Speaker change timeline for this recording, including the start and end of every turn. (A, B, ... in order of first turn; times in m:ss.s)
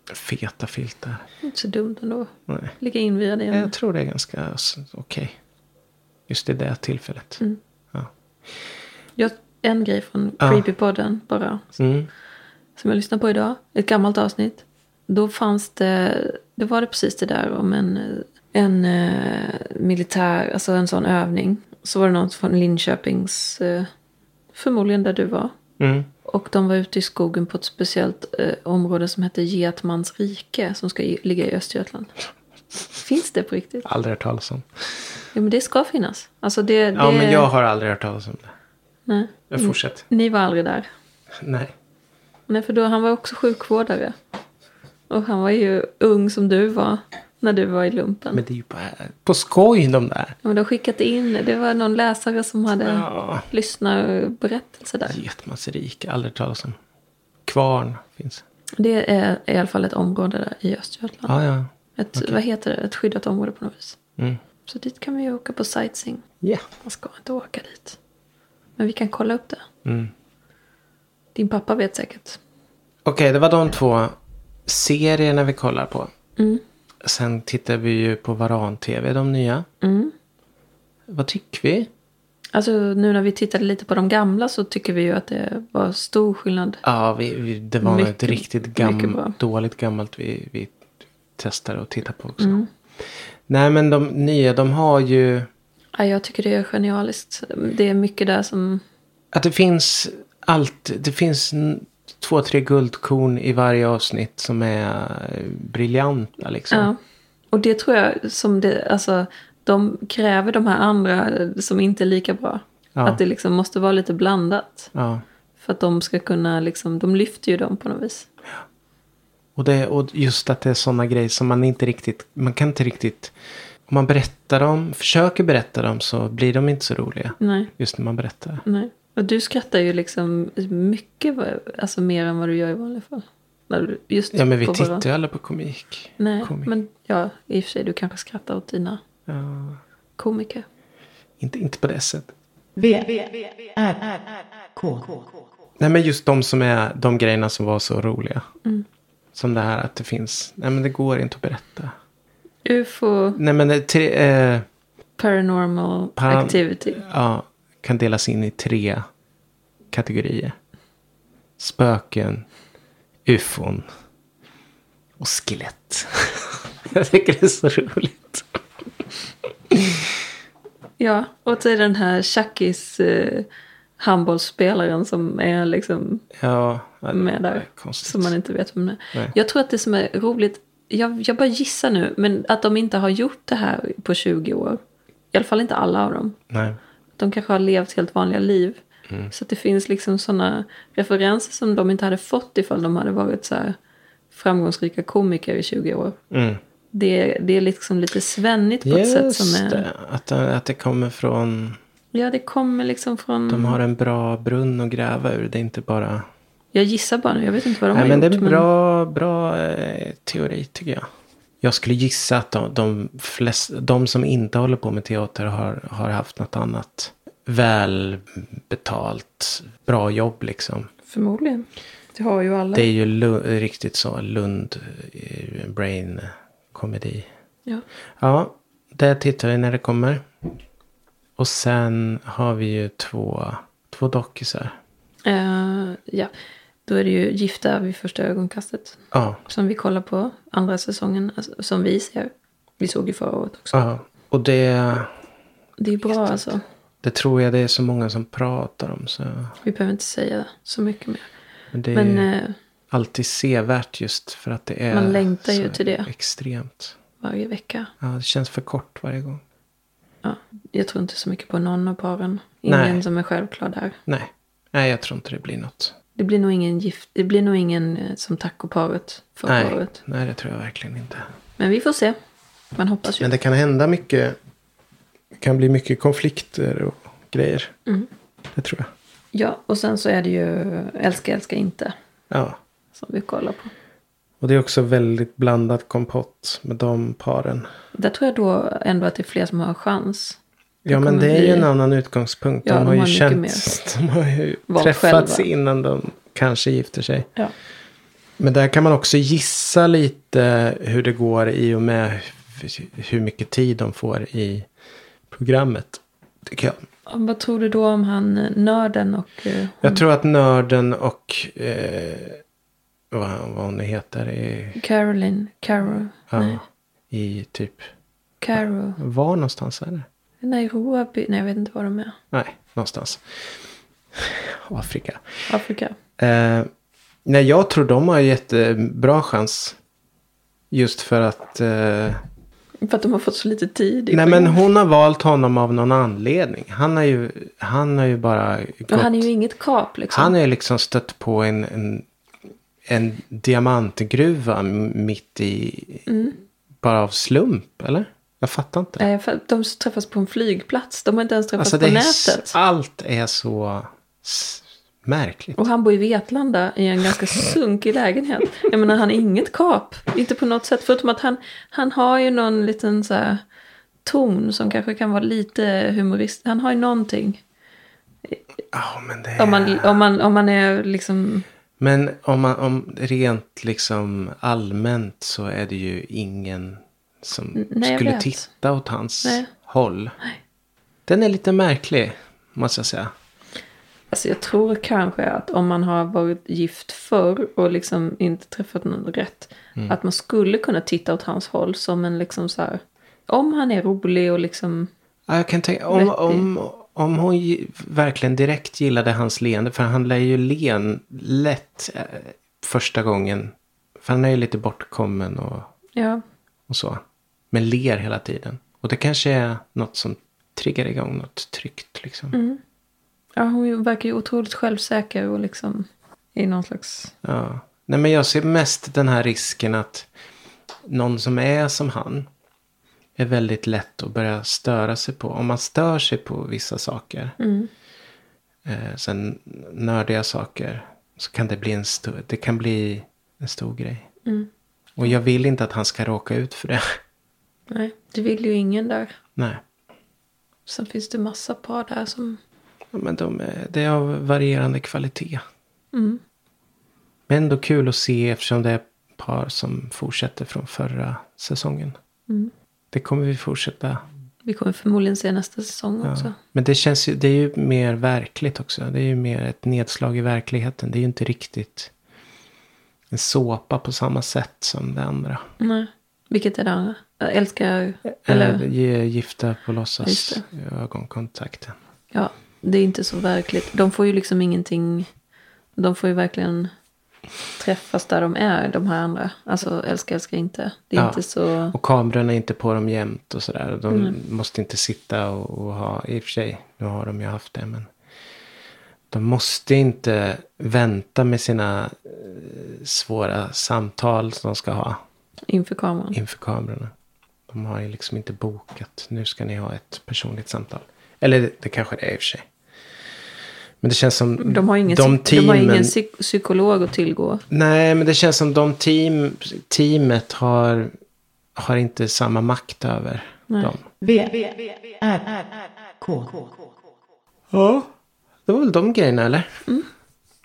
0:00.1-0:01.2 A
0:01.4-0:03.7 B
0:02.5-0:02.7 A
0:03.5-0:05.4 A
0:06.3-0:07.4 A
0:09.2-0:11.8 B
0:11.8-0:12.1 A
0:12.8-0:23.9 B
0:24.5-0:25.6 B
0:25.8-0:26.1 A
0:26.2-0:32.1 B
0:32.9-0:33.9 B
0:33.8-0:34.7 A
0:35.3-0:37.5 B
0:36.9-0:38.5 A
0:39.1-0:40.9 B
0:39.5-0:40.0 A
0:41.4-0:41.7 A
0:42.5-0:44.2 B
0:45.1-0:48.4 B
0:48.3-0:50.4 A
0:50.4-0:55.2 B
0:52.8-0:53.5 A
0:55.1-0:56.8 A
0:57.4-0:58.4 A
0:58.8-1:01.3 B
1:01.3-1:02.4 A
1:02.0-1:04.0 B
1:04.6-1:06.2 B
1:06.8-1:08.0 B
1:08.8-1:09.6 B
1:09.8-1:10.1 A
1:11.3-1:12.4 B
1:13.0-1:16.1 A
1:16.4-1:16.6 B
1:17.0-1:19.6 A
1:19.8-1:20.1 B
1:21.1-1:21.9 A
1:22.5-1:26.8 B
1:26.8-1:30.8 A
1:27.8-1:29.4 B
1:31.4-1:32.6 A
1:32.4-1:32.7 B
1:33.5-1:35.5 A
1:36.0-1:38.8 B
1:39.3-1:46.9 A
1:46.7-1:47.0 B
1:47.5-1:54.9 B
1:52.9-1:53.2 A
1:54.9-1:55.2 A
1:55.6-1:58.3 B
1:59.6-2:03.3 A
2:03.9-2:08.6 A
2:07.4-2:07.7 B
2:08.6-2:15.0 B
2:14.3-2:16.7 A
2:16.2-2:19.0 B
2:19.3-2:19.8 A
2:20.2-2:20.6 B
2:21.4-2:22.3 A
2:22.8-2:25.3 C
2:25.8-2:28.5 A
2:29.3-2:31.9 A
2:32.6-2:33.4 B
2:33.4-2:34.6 A
2:35.2-2:37.0 B
2:36.2-2:39.0 A
2:39.9-2:40.6 A
2:41.6-2:42.4 A
2:43.2-2:43.8 A
2:45.2-2:48.5 A
2:49.7-2:50.0 A
2:51.0-2:53.5 B
2:54.0-2:56.2 B
2:56.3-2:58.3 A
2:57.1-3:04.8 B
3:05.3-3:06.4 B
3:06.5-3:06.8 A
3:07.2-3:08.8 B
3:09.3-3:13.8 B
3:14.3-3:16.2 B
3:16.3-3:16.6 A
3:16.9-3:19.9 B
3:18.8-3:21.8 A
3:22.1-3:23.8 B
3:23.5-3:26.3 A
3:26.7-3:28.6 B
3:27.9-3:31.1 A
3:31.6-3:40.9 A
3:41.1-3:42.9 B
3:42.7-3:47.3 A
3:48.2-3:50.3 A
3:51.4-3:54.8 A
3:55.2-3:56.3 B
3:56.8-4:03.8 B
3:59.1-3:59.4 A
4:03.7-4:05.1 A
4:05.8-4:06.6 B
4:06.1-4:09.5 A
4:09.6-4:11.3 B
4:11.7-4:12.3 A
4:11.9-4:12.5 B
4:12.9-4:17.0 A
4:14.9-4:16.1 B
4:17.2-4:17.9 B
4:18.0-4:19.4 A
4:20.2-4:24.0 B
4:22.6-4:23.0 A
4:24.1-4:25.9 A
4:26.2-4:30.0 B
4:29.5-4:31.3 A
4:31.6-4:32.2 B
4:32.7-4:33.3 B
4:33.2-4:34.4 A
4:35.4-4:37.8 A
4:38.5-4:38.9 A
4:39.3-4:41.9 B
4:42.3-4:42.6 A
4:42.9-4:43.7 B
4:44.4-4:47.7 A
4:47.9-4:50.4 B
4:50.8-4:57.3 A
4:50.9-4:51.7 B
4:52.6-4:53.6 B
4:54.7-4:55.5 B
4:58.4-5:04.7 A
5:05.3-5:06.8 A
5:07.1-5:10.0 B
5:09.8-5:12.4 A
5:13.1-5:14.8 A
5:14.8-5:16.6 B
5:16.3-5:17.9 A
5:18.4-5:19.0 B
5:19.0-5:20.0 A
5:20.4-5:22.2 B
5:22.3-5:23.2 A
5:24.1-5:25.2 A
5:25.5-5:26.0 B
5:26.2-5:26.7 A
5:27.2-5:29.8 A
5:30.7-5:32.2 A
5:32.8-5:34.6 B
5:34.1-5:39.3 A
5:38.9-5:40.3 B
5:40.1-5:42.0 A
5:42.8-5:46.1 A
5:46.1-5:46.4 B
5:46.8-5:49.0 A
5:49.0-5:52.6 B
5:51.6-5:55.6 A
5:55.6-6:03.4 B
6:04.0-6:07.4 B
6:08.7-6:09.9 A
6:09.4-6:11.4 B
6:11.8-6:20.2 A
6:17.5-6:18.5 B
6:19.2-6:19.5 B
6:21.1-6:23.1 A
6:24.1-6:34.9 B
6:35.3-6:45.7 A
6:35.9-6:36.4 B
6:46.0-6:46.2 B
6:46.7-6:52.3 A
6:52.3-6:52.6 B
6:53.4-6:57.1 B
6:57.2-7:00.1 A
7:00.8-7:02.3 A
7:03.2-7:07.3 A
7:07.4-7:07.7 B
7:08.6-7:14.1 A
7:15.0-7:16.9 A
7:17.7-7:19.2 B
7:19.4-7:19.6 A
7:20.6-7:22.4 B
7:22.9-7:25.4 A
7:25.9-7:26.2 B
7:27.3-7:32.0 A
7:32.9-7:34.0 A
7:34.4-7:36.4 B
7:36.0-7:41.9 A
7:43.1-7:45.4 A
7:45.6-7:48.6 B
7:48.2-7:51.8 A
7:50.0-7:50.4 B
7:52.1-7:55.1 B
7:55.8-7:56.7 B
7:57.6-8:01.7 B
8:01.0-8:07.9 A
8:03.9-8:04.2 B
8:09.1-8:15.0 A
8:15.5-8:16.2 B
8:16.1-8:16.9 A
8:17.5-8:22.5 A
8:23.8-8:25.9 A
8:24.4-8:27.4 B
8:27.5-8:30.9 A
8:31.6-8:33.8 A
8:33.5-8:33.8 B
8:34.0-8:36.8 C
8:37.5-8:37.9 A
8:38.4-8:39.6 A